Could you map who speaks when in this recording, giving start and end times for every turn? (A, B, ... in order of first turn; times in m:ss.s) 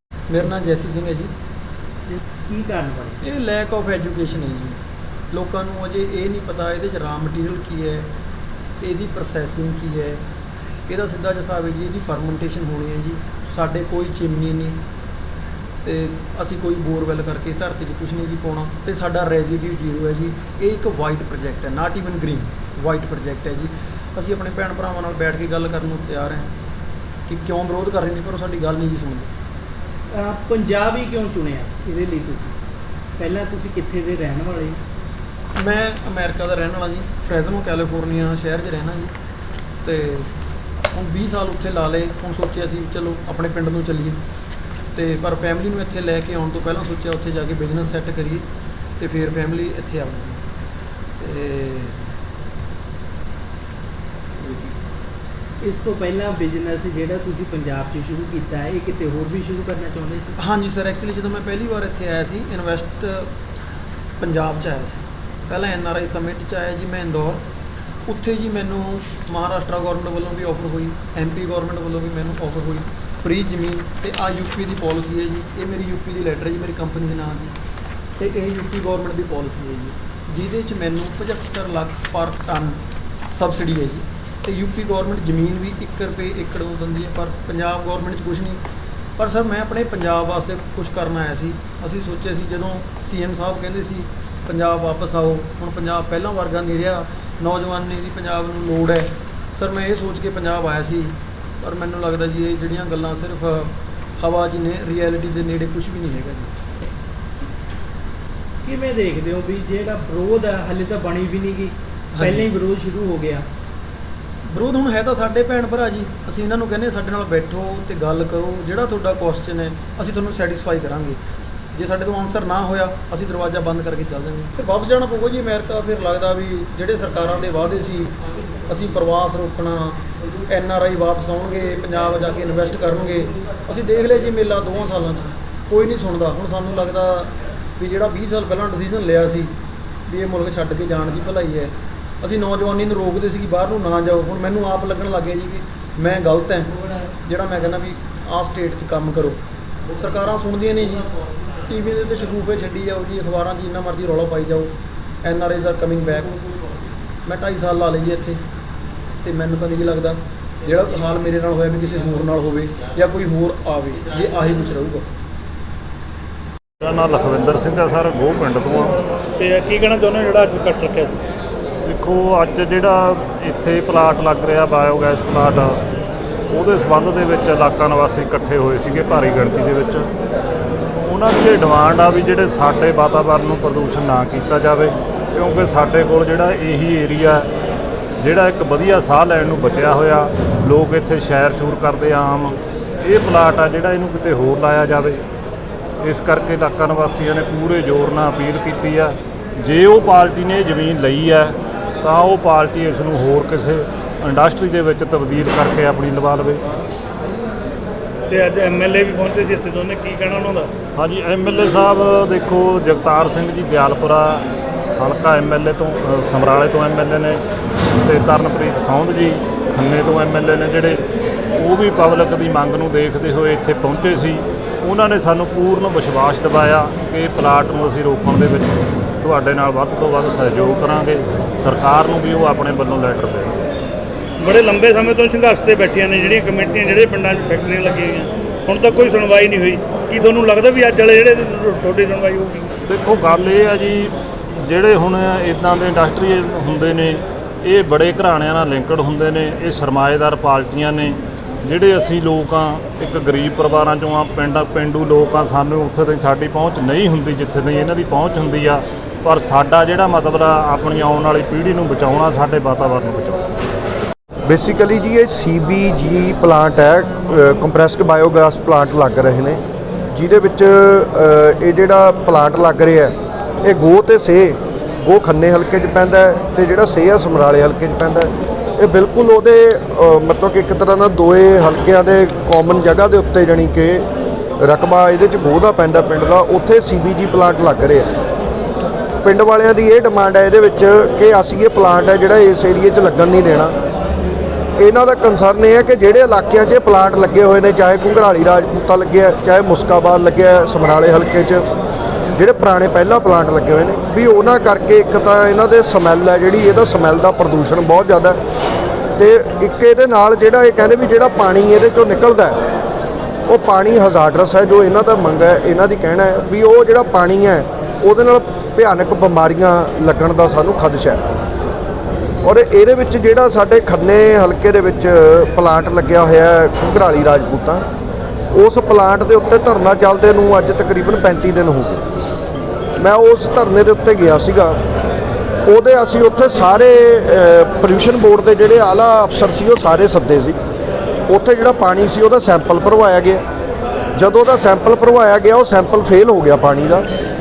0:00.3-0:01.3 A
0:02.1-0:03.2 B
0:03.2-0:04.8 A
0:05.3-0:08.1 A
0:08.8-0:10.2 A
0:10.9-0:14.8 A
0:15.8-0:26.5 A
0:27.3-0:29.3 A
0:30.1-0:32.6 B
0:33.2-0:34.8 B
0:35.6-0:39.1 A
0:39.8-0:40.3 A
0:40.9-0:44.2 A
0:45.0-0:48.5 A
0:49.0-0:50.4 A
0:51.2-0:52.0 A
0:55.6-1:00.3 B
1:00.4-1:03.3 A
1:04.2-1:07.5 A
1:08.1-1:17.6 A
1:18.2-1:22.8 A
1:23.3-1:28.6 A
1:29.2-1:46.5 A
1:48.6-1:53.5 B
1:52.1-1:52.5 A
1:54.5-2:01.2 A
2:01.7-2:19.5 A
2:20.1-2:29.4 A
2:30.0-2:31.1 A
2:31.7-2:36.4 A
2:37.2-2:38.4 A
2:39.2-2:45.1 A
2:46.8-2:49.0 C
2:49.4-2:51.2 D
2:51.8-2:55.8 C
2:56.5-3:00.1 C
3:01.0-3:07.5 C
3:08.2-3:15.2 C
3:16.0-3:26.6 C
3:28.3-3:30.7 D
3:31.0-3:34.4 C
3:35.0-3:37.4 C
3:38.0-3:41.0 C
3:41.6-3:53.6 C
3:54.4-4:02.7 D
4:02.9-4:23.5 C
4:24.5-4:29.6 E
4:30.1-4:44.1 E
4:44.6-4:48.1 E
4:49.2-4:53.8 E
4:54.8-5:01.7 E
5:02.4-5:08.4 E
5:09.2-5:12.6 E
5:13.5-5:21.2 E
5:22.4-5:27.9 E
5:28.5-5:32.0 E
5:33.0-5:34.8 E
5:35.6-5:40.6 E
5:41.3-5:43.4 E
5:44.2-5:47.1 E